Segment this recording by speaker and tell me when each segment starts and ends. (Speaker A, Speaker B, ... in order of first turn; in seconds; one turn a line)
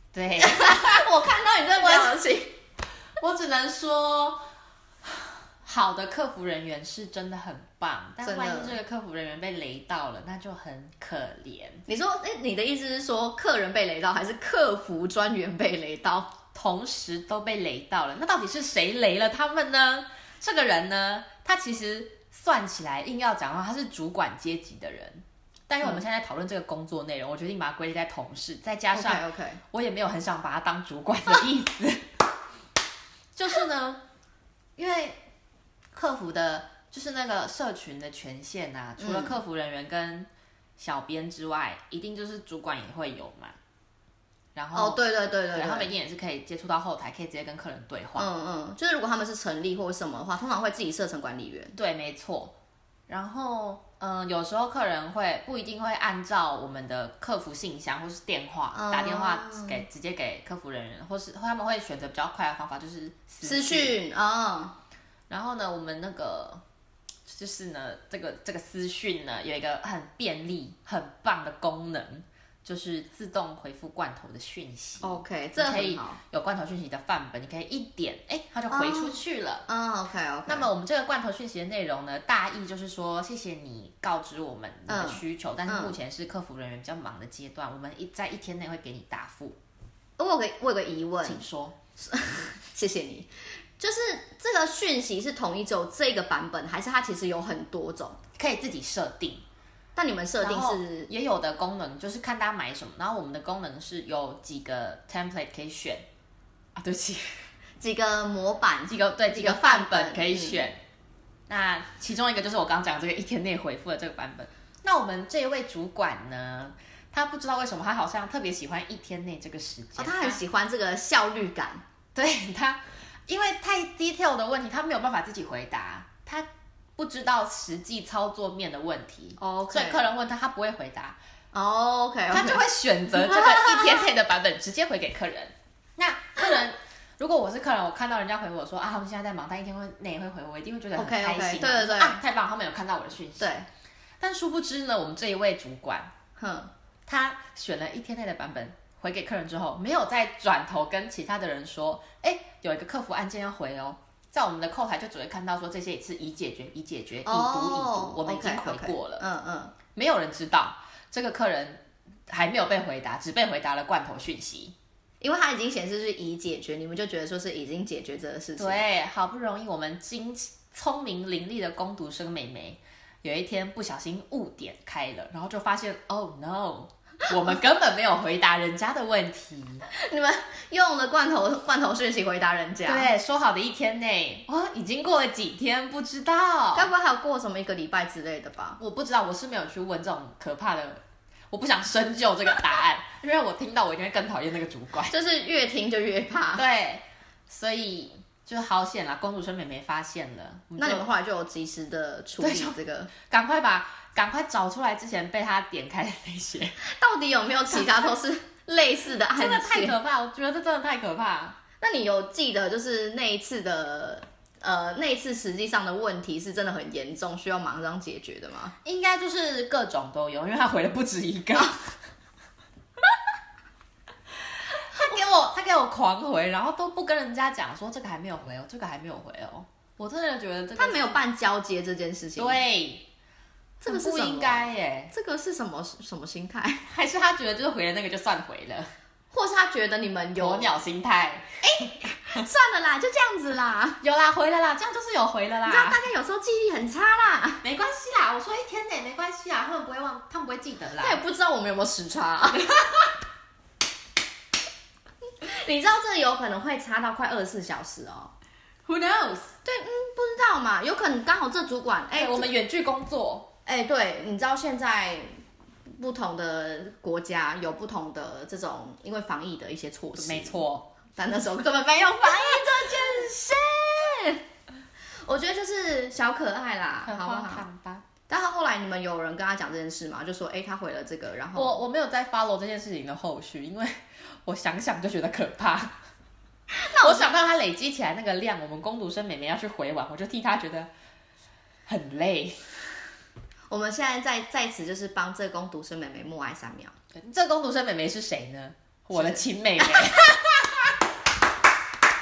Speaker A: 0.1-1.1
Speaker B: 0.4-2.5
Speaker A: 1.8-2.2
Speaker A: 3.2-4.4
Speaker A: 5.0-11.8
Speaker B: 8.2-8.8
Speaker B: 11.9-16.3
Speaker A: 16.5-32.1
Speaker B: 28.9-29.6
Speaker A: 33.4-34.0
Speaker A: 34.8-35.2
Speaker A: 35.9-43.5
Speaker B: 39.0-39.4
Speaker A: 44.5-48.3
Speaker B: 44.7-45.9
Speaker B: 48.2-51.8
Speaker A: 51.8-52.5
Speaker A: 53.1-64.0
Speaker B: 58.7-59.8
Speaker B: 63.4-64.8
Speaker A: 65.3-66.6
Speaker A: 67.3-79.7
Speaker B: 75.0-76.2
Speaker B: 78.7-80.7
Speaker A: 80.5-89.6
Speaker B: 84.9-86.0
Speaker B: 90.2-91.4
Speaker A: 91.2-91.8
Speaker B: 92.0-98.2
Speaker A: 98.4-99.4
Speaker B: 100.0-101.1
Speaker A: 100.4-106.1
Speaker A: 106.8-107.4
Speaker B: 107.8-110.7
Speaker A: 108.9-110.8
Speaker A: 111.5-120.4
Speaker B: 120.0-121.8
Speaker A: 122.2-131.2
Speaker B: 129.4-130.1
Speaker B: 131.5-134.0
Speaker A: 132.3-143.5
Speaker B: 140.9-142.2
Speaker B: 143.4-143.7
Speaker A: 144.2-146.1
Speaker B: 146.4-146.7
Speaker A: 147.1-159.2
Speaker B: 157.2-159.8
Speaker A: 159.9-164.8
Speaker B: 165.2-168.8
Speaker A: 168.6-179.9
Speaker B: 179.9-183.1
Speaker A: 182.9-186.9
Speaker B: 186.8-188.8
Speaker A: 188.8-195.1
Speaker B: 195.1-196.6
Speaker A: 196.6-201.1
Speaker B: 200.8-203.1
Speaker A: 202.4-206.8
Speaker B: 206.8-210.0
Speaker A: 207.7-208.1
Speaker A: 209.3-211.6
Speaker B: 211.8-218.7
Speaker A: 218.8-221.9
Speaker A: 224.7-231.2
Speaker B: 230.8-232.6
Speaker A: 232.4-233.1
Speaker A: 233.8-235.1
Speaker B: 233.8-236.9
Speaker A: 236.9-238.9
Speaker B: 239.3-240.8
Speaker A: 240.4-241.9
Speaker B: 241.6-244.0
Speaker A: 244.0-246.0
Speaker B: 245.7-247.6
Speaker A: 247.6-251.2
Speaker B: 251.0-252.7
Speaker A: 252.5-253.1
Speaker B: 255.4-258.3
Speaker A: 258.9-259.5
Speaker B: 259.6-262.5
Speaker A: 262.1-263.5
Speaker B: 263.7-265.4
Speaker B: 266.0-270.6
Speaker A: 270.2-270.9
Speaker B: 271.2-274.4
Speaker A: 272.3-272.9
Speaker B: 275.2-277.6
Speaker A: 277.0-278.1
Speaker B: 278.3-281.8
Speaker A: 281.5-286.0
Speaker B: 286.7-287.3
Speaker A: 286.9-290.9
Speaker A: 291.9-292.6
Speaker B: 293.7-296.9
Speaker A: 297.1-300.9